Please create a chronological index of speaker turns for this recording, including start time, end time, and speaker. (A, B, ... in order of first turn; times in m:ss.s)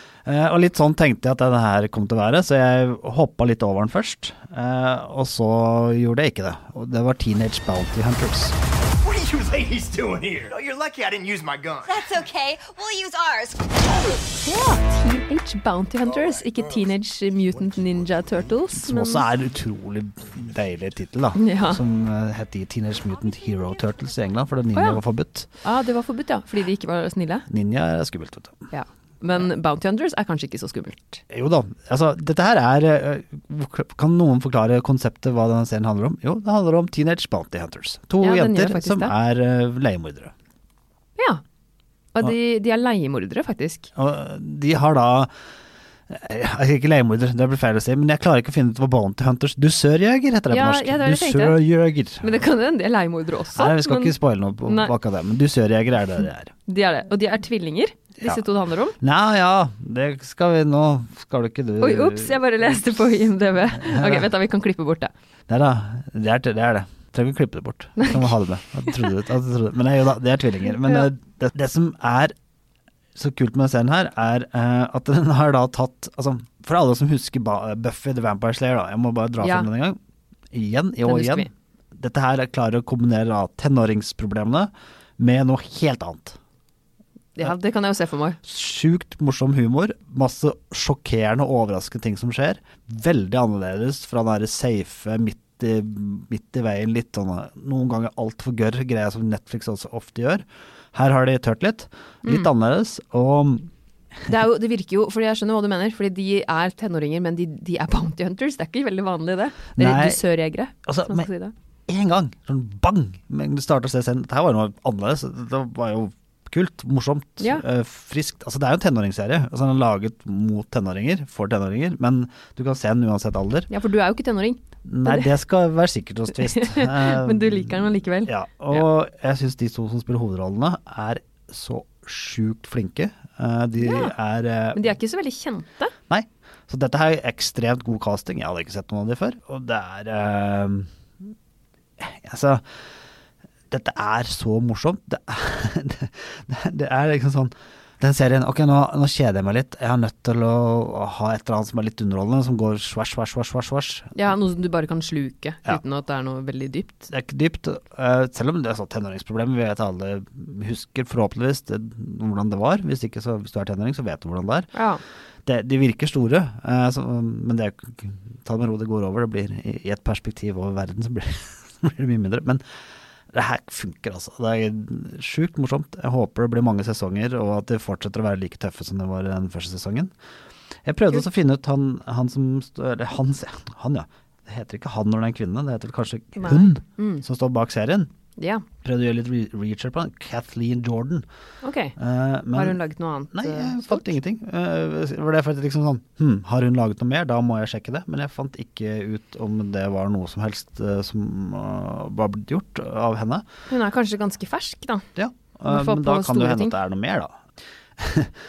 0:00.2-0:08.6 A
0:09.1-0:12.1 B
0:11.8-0:13.8 C
0:14.1-0:19.3 D
0:18.8-0:25.5 A
0:21.4-0:21.8 D
0:24.8-0:25.0 D
0:25.6-0:27.5 D
0:27.5-0:28.7 A
0:28.7-0:31.2 D
0:31.3-0:40.3 A
0:38.2-0:39.2 D
0:41.2-0:41.4 D
0:42.1-0:43.9 D
0:44.0-0:45.3 A
0:46.1-0:52.4 A
0:50.5-0:51.6 D
0:52.2-0:54.9 D
0:53.5-0:56.5 A
0:56.7-0:59.0 D
0:59.0-1:02.7 A
1:01.8-1:05.1 D
1:03.8-1:04.3 A
1:05.5-1:12.3 A
1:10.8-1:11.1 D
1:13.2-1:20.0 A
1:19.4-1:19.7 D
1:20.5-1:26.4 A
1:21.0-1:21.5 D
1:27.4-1:28.4 D
1:28.4-1:43.7 A
1:42.2-1:42.5 D
1:44.3-1:51.5 D
1:49.8-1:50.2 A
1:50.9-1:51.3 A
1:51.9-2:03.7 A
2:03.7-2:05.3 D
2:04.8-2:15.0 A
2:06.4-2:08.8 D
2:13.8-2:14.1 D
2:14.8-2:15.9 D
2:16.1-2:20.9 A
2:22.0-2:22.6 A
2:23.7-2:34.3 A
2:34.2-2:37.1 D
2:37.1-2:44.7 A
2:44.7-2:45.0 D
2:45.5-2:52.6 A
2:53.3-3:00.1 A
3:00.8-3:08.1 A
3:06.4-3:07.2 D
3:08.4-3:08.7 D
3:08.8-3:11.2 A
3:11.6-3:12.0 D
3:12.0-3:12.8 A
3:12.5-3:14.1 D
3:13.3-3:23.4 A
3:23.7-3:25.1 D
3:25.2-3:27.4 A
3:25.7-3:26.8 D
3:28.0-3:28.4 A